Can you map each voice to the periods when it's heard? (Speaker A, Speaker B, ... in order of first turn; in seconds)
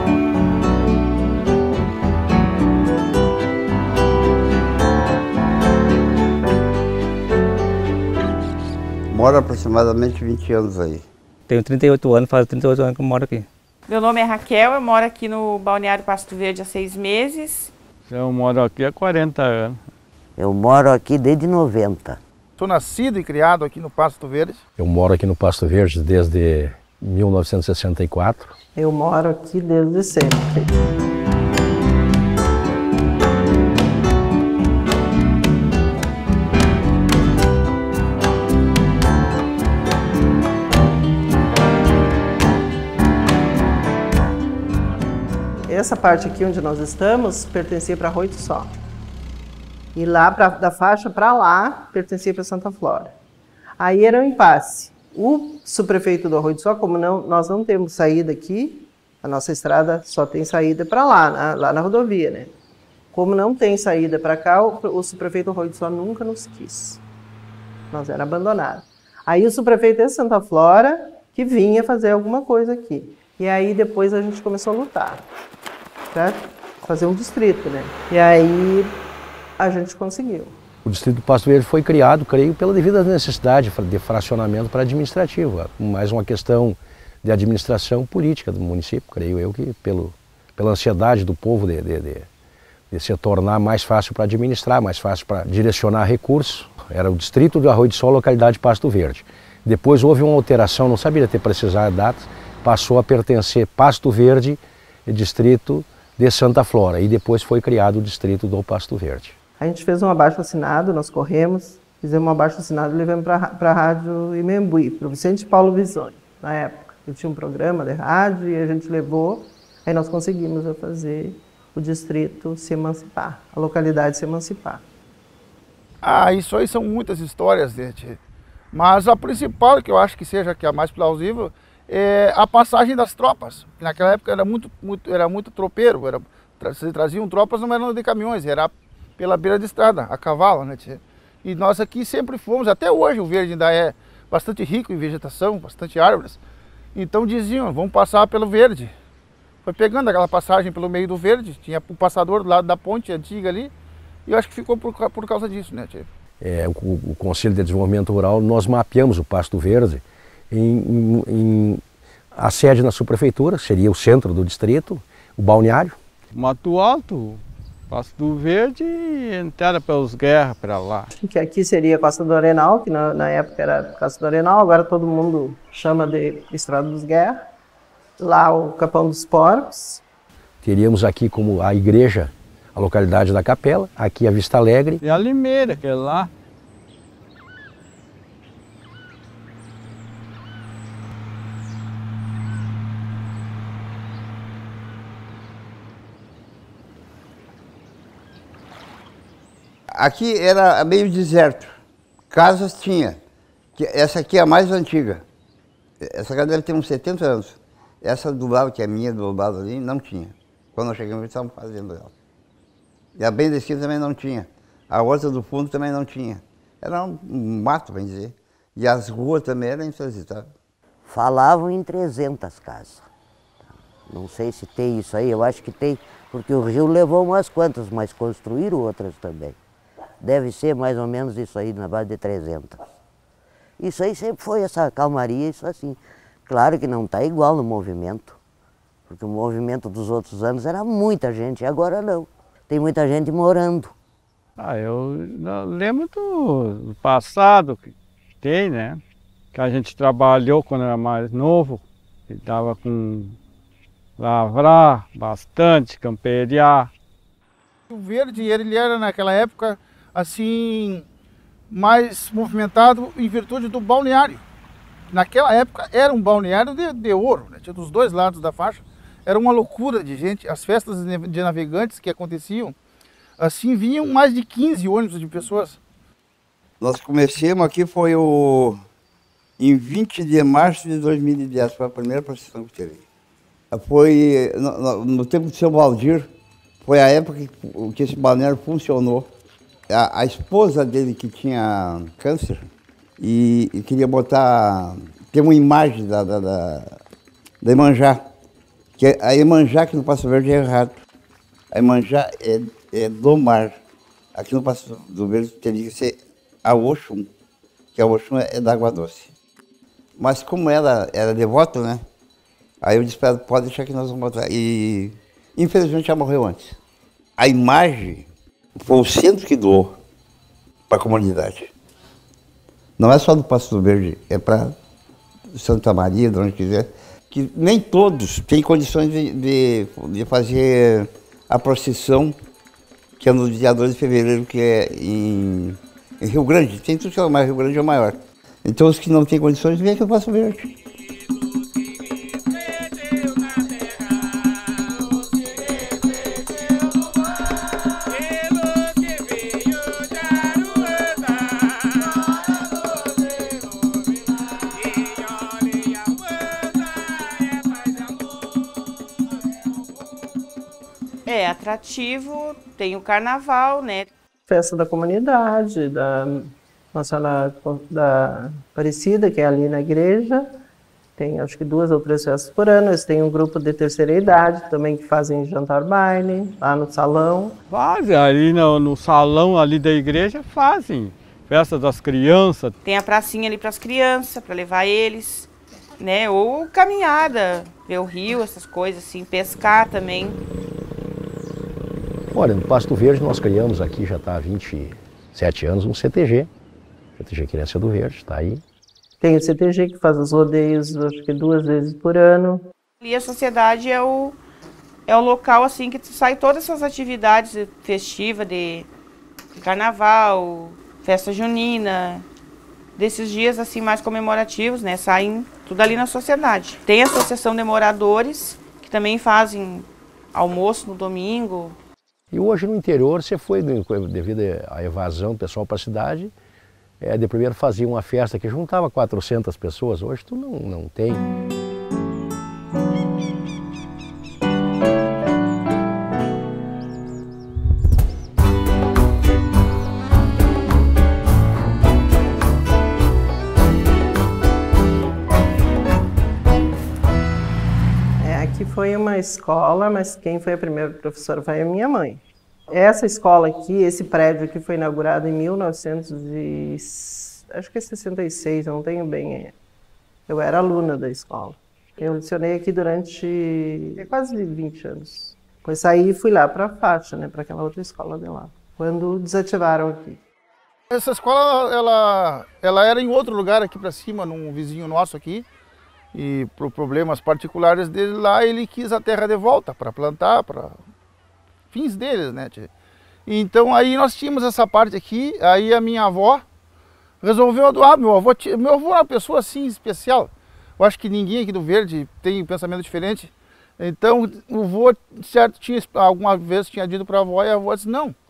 Speaker A: 9.1-11.0, 199.9-201.7, 202.3-203.2, 203.8-205.2, 206.0-212.1, 213.2-220.5, 276.8-278.8, 279.6-283.0, 283.7-286.3, 286.8-289.3, 289.9-297.0, 297.6-298.2, 299.0-300.9, 301.7-303.8, 304.3-307.3, 307.9-309.3, 310.2-312.0, 312.8-316.8, 317.4-320.0, 320.9-321.7, 323.0-324.8, 325.5-332.3, 333.2-340.7
Speaker B: 11.5-13.5
Speaker C: 13.9-17.7, 361.2-364.1, 382.8-390.4, 403.0-404.4, 405.1-408.9, 409.5-412.2, 413.0-421.8
Speaker D: 18.1-19.8, 166.3-171.1, 185.0-186.3, 244.6-249.0, 249.5-253.4, 254.2-256.9, 377.7-382.7
Speaker E: 20.4-22.2, 221.1-223.1, 224.1-229.6, 230.2-232.9, 233.8-238.4, 239.1-243.9
Speaker F: 22.6-24.6, 126.0-128.2, 128.7-146.4, 146.9-148.9, 149.6-153.7, 154.2-156.1, 257.9-261.0, 261.7-264.4, 265.1-272.7, 273.4-275.8, 470.9-475.4, 476.1-480.8, 481.7-482.7, 483.2-486.4, 487.2-498.1
Speaker G: 24.8-28.5, 80.8-92.3, 92.9-109.4, 156.4-161.8, 162.3-166.0, 180.6-185.0, 392.3-396.5, 397.1-398.6, 422.3-426.3, 427.0-431.2
Speaker H: 28.8-30.7, 45.7-48.8, 49.9-53.1, 53.8-62.5, 63.1-67.0, 67.9-75.3, 76.1-79.0, 79.6-80.6, 109.6-124.8, 171.2-177.5, 178.2-180.0, 364.5-370.6, 371.2-377.6, 399.2-402.7, 448.2-459.5, 460.3-470.2